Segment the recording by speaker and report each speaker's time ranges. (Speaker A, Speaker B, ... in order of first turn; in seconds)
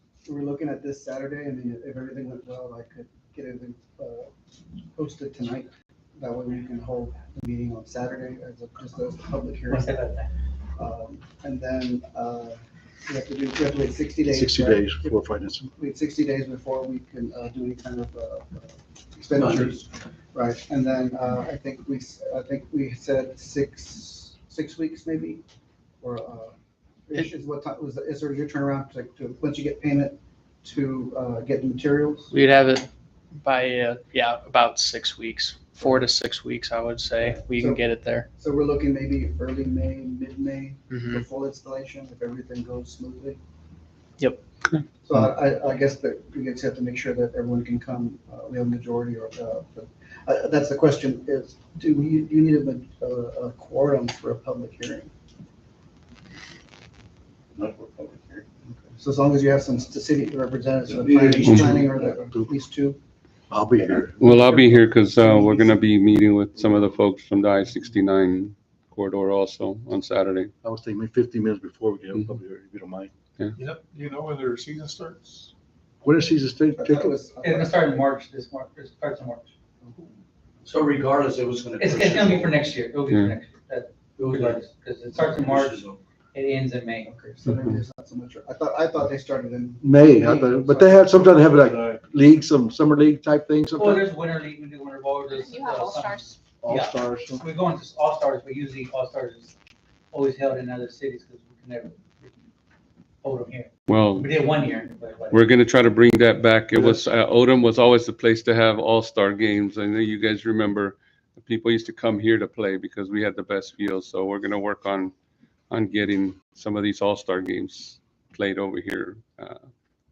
Speaker A: 0.2-4.3, 5.0-9.9, 10.8-25.4, 26.0-26.5, 27.1-32.3, 35.8-36.0, 37.2-43.4, 45.0-55.1, 58.9-63.0, 76.8-78.0, 79.8-80.1, 87.0-91.8
Speaker B: 9.7-10.3, 77.4-79.5, 81.8-85.7, 86.3-87.1, 93.8-96.1, 96.7-99.5, 100.1-102.0, 103.2-105.4
Speaker C: 14.3-15.7, 61.4-62.5, 63.5-65.5, 70.6-73.1, 76.0-77.1, 89.8-94.1, 96.6-97.4, 106.7-107.1
Speaker D: 19.4-19.9, 57.8-58.4, 61.0-61.7, 80.7-82.7, 84.2-86.0
Speaker E: 32.3-32.9, 33.4-38.3, 95.3-96.9
Speaker F: 61.5-61.8, 64.2-70.5, 83.1-83.4, 103.9-104.3, 105.3-115.1, 115.7-119.7
Speaker G: 73.6-75.2, 95.3-96.3